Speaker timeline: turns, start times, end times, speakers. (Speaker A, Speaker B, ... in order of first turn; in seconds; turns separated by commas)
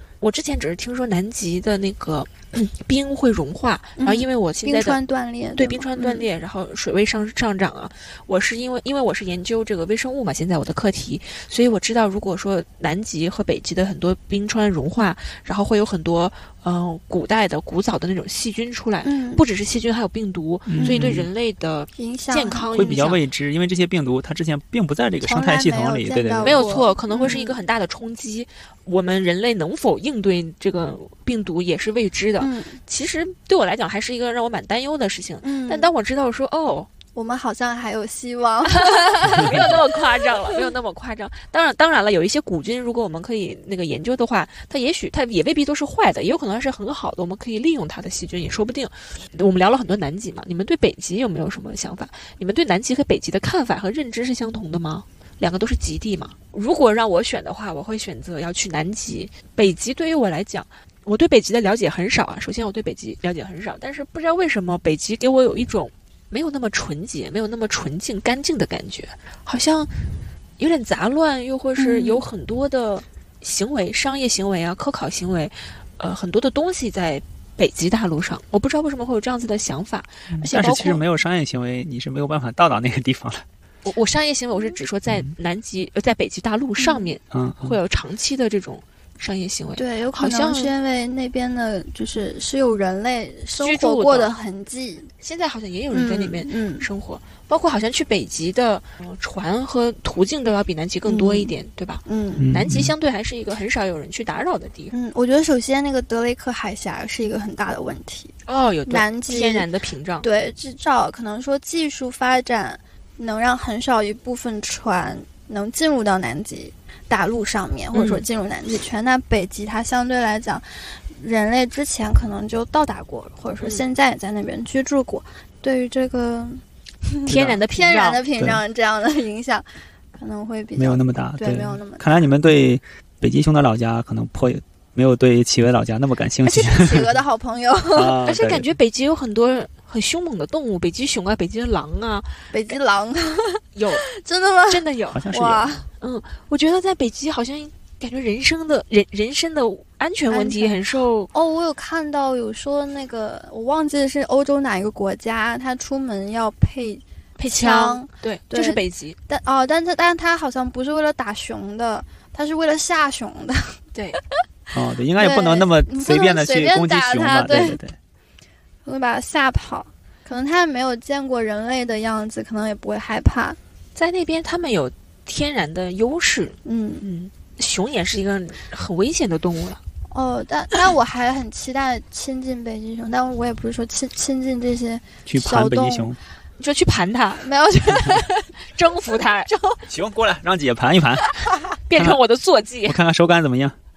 Speaker A: 0.2-5.0, Speaker B: 4.0-6.2, Speaker A: 5.6-23.2, Speaker B: 19.0-19.4, Speaker C: 20.7-21.3, Speaker B: 20.8-21.1, Speaker B: 22.0-22.9, Speaker C: 22.7-26.7, Speaker B: 25.2-27.6, Speaker A: 26.4-36.9, Speaker B: 32.4-32.8, Speaker B: 35.4-35.9, Speaker B: 37.1-40.6, Speaker A: 38.6-70.0, Speaker A: 70.6-81.0, Speaker B: 71.8-72.2, Speaker C: 80.4-83.4, Speaker A: 83.8-90.7, Speaker B: 86.8-87.1, Speaker C: 87.3-87.7, Speaker B: 89.8-95.1, Speaker A: 93.5-94.3, Speaker A: 95.2-104.9, Speaker B: 95.9-96.9, Speaker B: 101.0-101.5, Speaker B: 102.0-102.5, Speaker C: 102.4-102.9, Speaker B: 104.9-108.3, Speaker A: 108.5-110.3, Speaker B: 108.9-109.7, Speaker B: 110.2-132.3, Speaker A: 117.9-118.2, Speaker A: 127.2-128.2, Speaker C: 130.8-137.2, Speaker B: 136.4-138.2, Speaker C: 137.9-138.7, Speaker A: 138.2-142.4, Speaker B: 142.5-145.9, Speaker A: 143.7-144.1, Speaker A: 144.7-145.3, Speaker C: 145.1-145.8, Speaker A: 146.0-151.3, Speaker B: 150.3-150.8, Speaker B: 151.3-163.8, Speaker A: 157.4-159.2, Speaker A: 163.9-164.2, Speaker C: 164.7-167.9, Speaker B: 165.2-167.8, Speaker B: 168.8-173.6, Speaker A: 173.9-179.8, Speaker B: 176.6-177.0, Speaker B: 180.1-186.2, Speaker C: 185.2-186.2, Speaker A: 186.6-187.5, Speaker B: 187.4-188.5, Speaker A: 188.6-189.5, Speaker B: 189.5-189.8, Speaker C: 189.9-191.3, Speaker A: 191.9-193.0, Speaker C: 191.9-192.2, Speaker C: 192.8-193.8